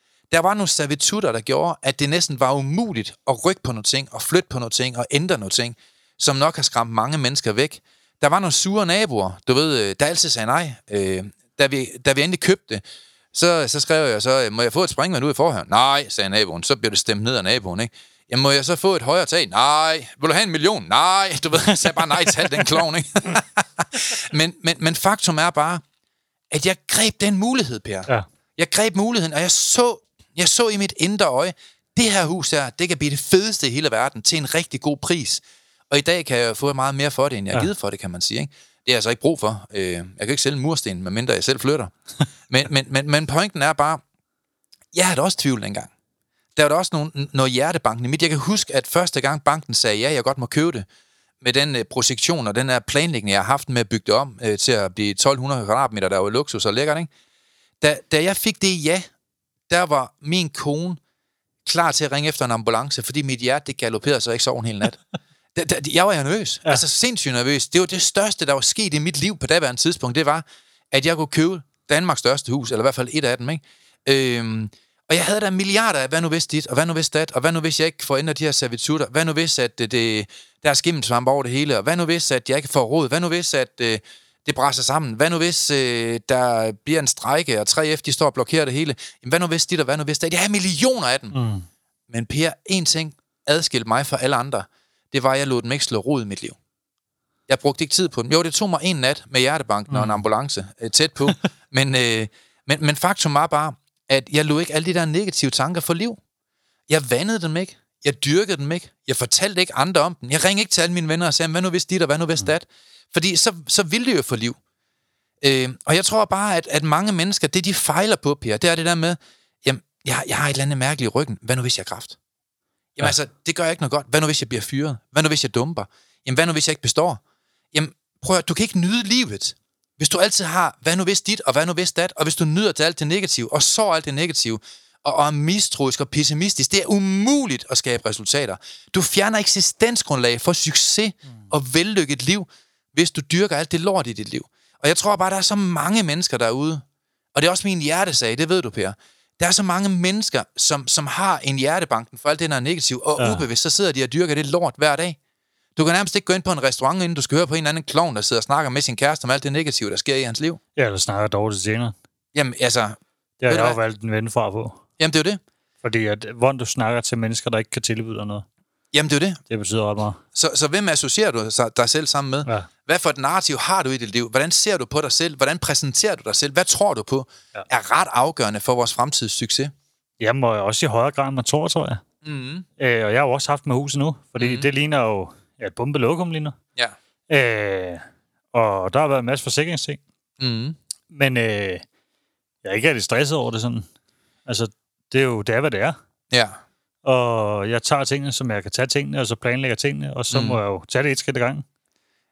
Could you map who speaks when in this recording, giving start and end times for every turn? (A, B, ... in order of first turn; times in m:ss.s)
0:00.3-0:12.8 A
0:13.3-0:25.8 A
0:21.6-0:22.8 B
0:26.5-0:41.9 A
0:42.5-0:44.0 A
0:44.9-0:45.9 A
0:46.6-0:50.9 A
0:51.4-0:57.1 A
0:57.8-0:59.1 A
0:59.7-1:01.0 A
1:01.6-1:05.0 A
1:05.6-1:31.4 A
1:31.3-1:31.7 B
1:32.1-1:36.6 A
1:37.5-1:46.2 A
1:39.9-1:40.2 B
1:46.9-1:54.6 A
1:55.4-2:02.2 A
2:03.0-2:07.2 A
2:07.7-2:26.8 A
2:27.4-2:35.2 A
2:33.2-2:33.4 B
2:35.8-2:40.6 A
2:40.8-2:42.0 B
2:42.3-2:43.8 A
2:43.4-2:44.8 B
2:45.0-2:45.4 A
2:45.8-2:48.4 B
2:48.9-2:49.4 A
2:49.5-2:50.2 B
2:50.4-2:59.7 A
3:00.2-3:02.0 B
3:02.2-3:02.7 A
3:02.8-3:06.6 B
3:04.4-3:04.7 A
3:07.3-3:10.0 B
3:10.4-3:10.8 A
3:11.1-3:11.8 B
3:12.6-3:13.9 B
3:14.5-3:16.0 B
3:16.3-3:16.6 A
3:17.0-3:21.6 B
3:20.3-3:20.6 A